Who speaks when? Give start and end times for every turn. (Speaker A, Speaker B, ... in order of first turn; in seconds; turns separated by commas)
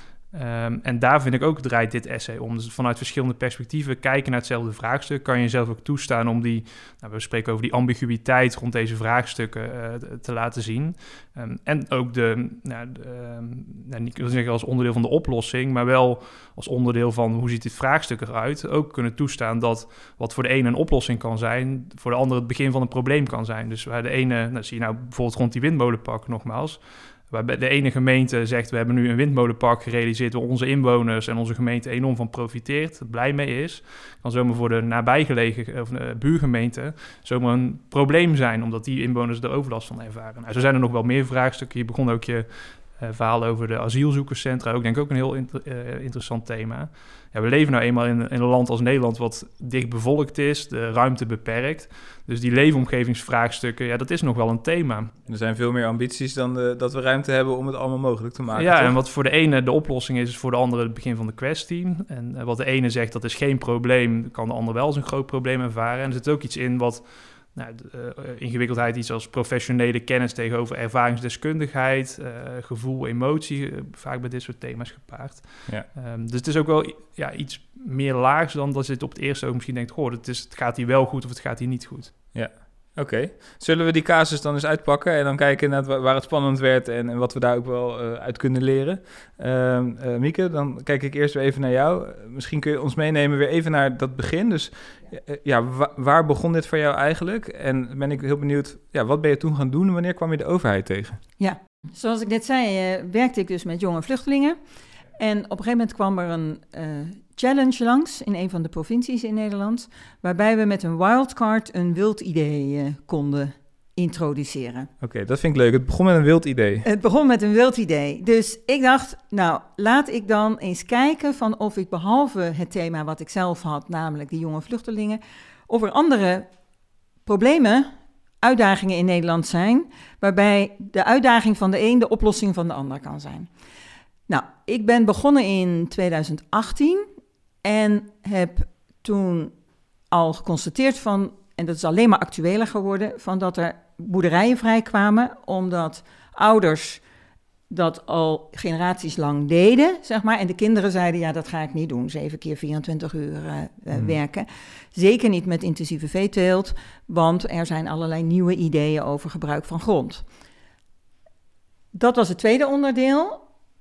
Speaker A: 0.3-55.1, Speaker B: 55.3-58.9, Speaker A: 58.5-82.2, Speaker B: 82.3-101.2, Speaker C: 101.4-104.5, Speaker C: 105.2-114.9, Speaker B: 115.0-116.9, Speaker C: 116.8-126.5, Speaker C: 127.2-133.5, Speaker C: 134.3-137.1, Speaker C: 137.6-139.5, Speaker C: 140.1-147.0, Speaker C: 147.7-160.2, Speaker C: 161.9-163.4